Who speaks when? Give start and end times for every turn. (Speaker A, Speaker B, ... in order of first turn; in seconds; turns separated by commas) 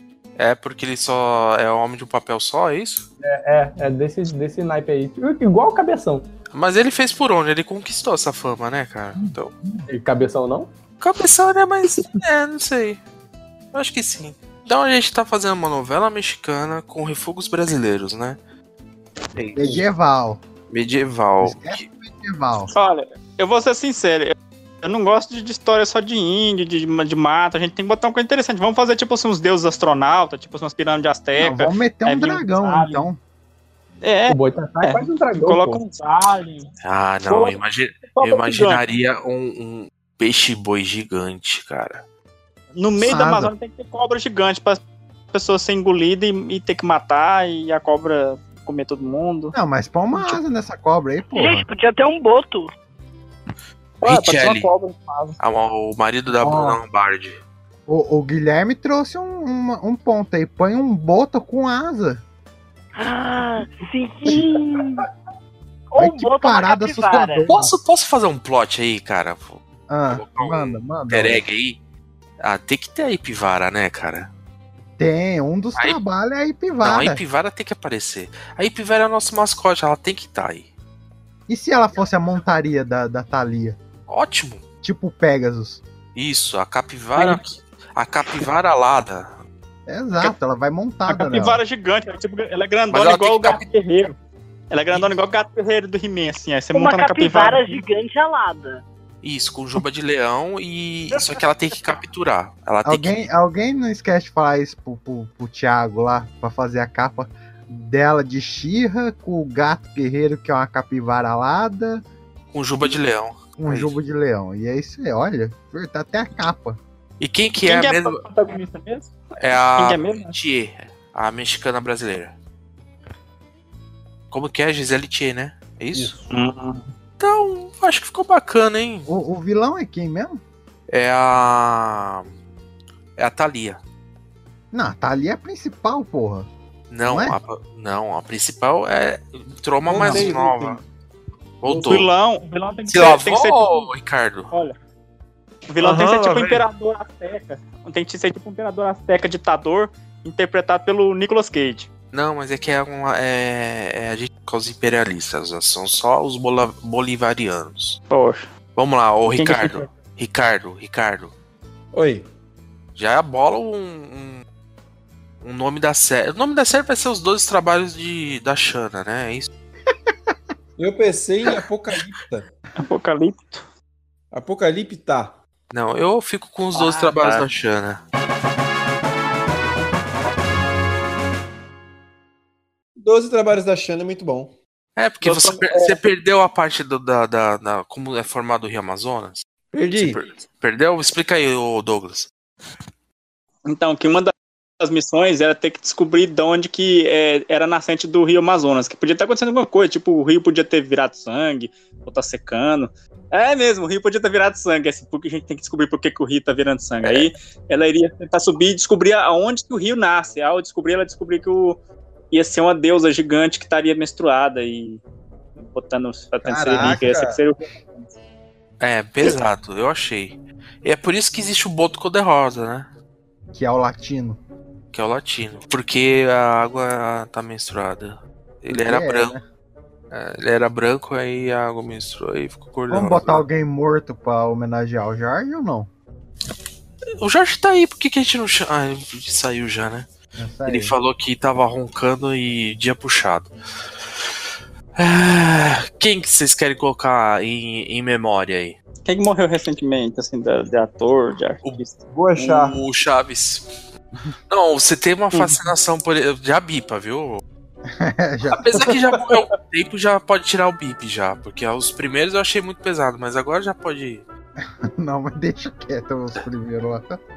Speaker A: 0.4-3.1, Speaker B: 3.2-6.2, Speaker A: 6.5-9.5, Speaker B: 9.9-10.7, Speaker A: 11.0-13.0, Speaker A: 13.7-18.4, Speaker A: 19.3-19.8, Speaker C: 19.6-20.4, Speaker A: 20.7-21.8, Speaker C: 21.4-22.7, Speaker D: 22.7-33.0, Speaker C: 31.4-33.2, Speaker D: 34.0-36.7, Speaker B: 34.3-35.8, Speaker A: 36.8-42.0, Speaker D: 37.2-38.8, Speaker D: 42.7-44.8, Speaker C: 43.0-43.5, Speaker D: 45.3-49.5, Speaker C: 49.5-51.7, Speaker E: 51.3-52.7, Speaker D: 54.0-55.4, Speaker A: 54.0-54.7, Speaker A: 55.4-57.4, Speaker C: 57.9-62.2, Speaker E: 63.0-65.0, Speaker E: 65.9-67.5, Speaker C: 66.0-67.7, Speaker A: 67.5-71.8, Speaker C: 69.9-71.4, Speaker A: 72.4-74.3, Speaker C: 75.0-77.2, Speaker A: 76.8-80.7, Speaker C: 81.5-83.8, Speaker A: 84.1-84.6, Speaker C: 84.8-85.8, Speaker A: 86.2-89.4, Speaker C: 89.9-91.6, Speaker D: 91.1-94.2, Speaker A: 92.9-93.6, Speaker D: 94.7-97.8, Speaker E: 96.7-98.8, Speaker A: 99.2-103.2, Speaker C: 102.8-112.0, Speaker A: 112.5-113.9, Speaker C: 113.6-116.8, Speaker A: 117.2-118.2, Speaker D: 117.6-120.3, Speaker A: 119.4-122.3, Speaker A: 124.3-126.2, Speaker D: 126.3-126.9, Speaker A: 127.2-129.1, Speaker C: 129.1-130.4, Speaker A: 130.9-132.3, Speaker A: 133.2-133.8, Speaker C: 134.7-136.5, Speaker A: 136.9-140.8, Speaker C: 137.0-137.4, Speaker F: 139.9-140.8, Speaker D: 140.1-140.7, Speaker A: 141.6-142.1, Speaker D: 141.8-143.9, Speaker A: 142.9-144.5, Speaker D: 144.5-144.8, Speaker D: 145.7-151.9, Speaker F: 145.8-146.6, Speaker A: 152.1-158.0, Speaker D: 158.1-158.5, Speaker A: 158.8-161.3, Speaker D: 159.3-159.9, Speaker F: 161.9-162.3, Speaker A: 163.0-164.4, Speaker A: 165.4-169.5, Speaker F: 170.8-172.4, Speaker D: 172.8-173.6, Speaker F: 174.3-175.3, Speaker A: 175.7-178.0, Speaker D: 176.7-177.4, Speaker F: 183.0-184.5, Speaker A: 184.9-192.3, Speaker D: 185.2-186.0, Speaker F: 189.7-190.2, Speaker D: 193.7-211.8, Speaker D: 212.3-215.0, Speaker D: 215.6-218.1, Speaker F: 216.4-217.4, Speaker A: 218.8-222.9, Speaker C: 223.5-224.4, Speaker A: 224.9-229.3, Speaker C: 228.7-229.4, Speaker A: 230.1-233.4, Speaker C: 232.9-235.9, Speaker A: 237.2-240.1, Speaker C: 240.4-240.9, Speaker A: 240.7-243.5, Speaker A: 245.0-248.8, Speaker D: 249.1-252.6, Speaker F: 252.1-252.8, Speaker A: 252.6-253.7, Speaker A: 254.5-257.4, Speaker C: 257.9-258.9, Speaker A: 258.5-264.2, Speaker C: 264.6-267.2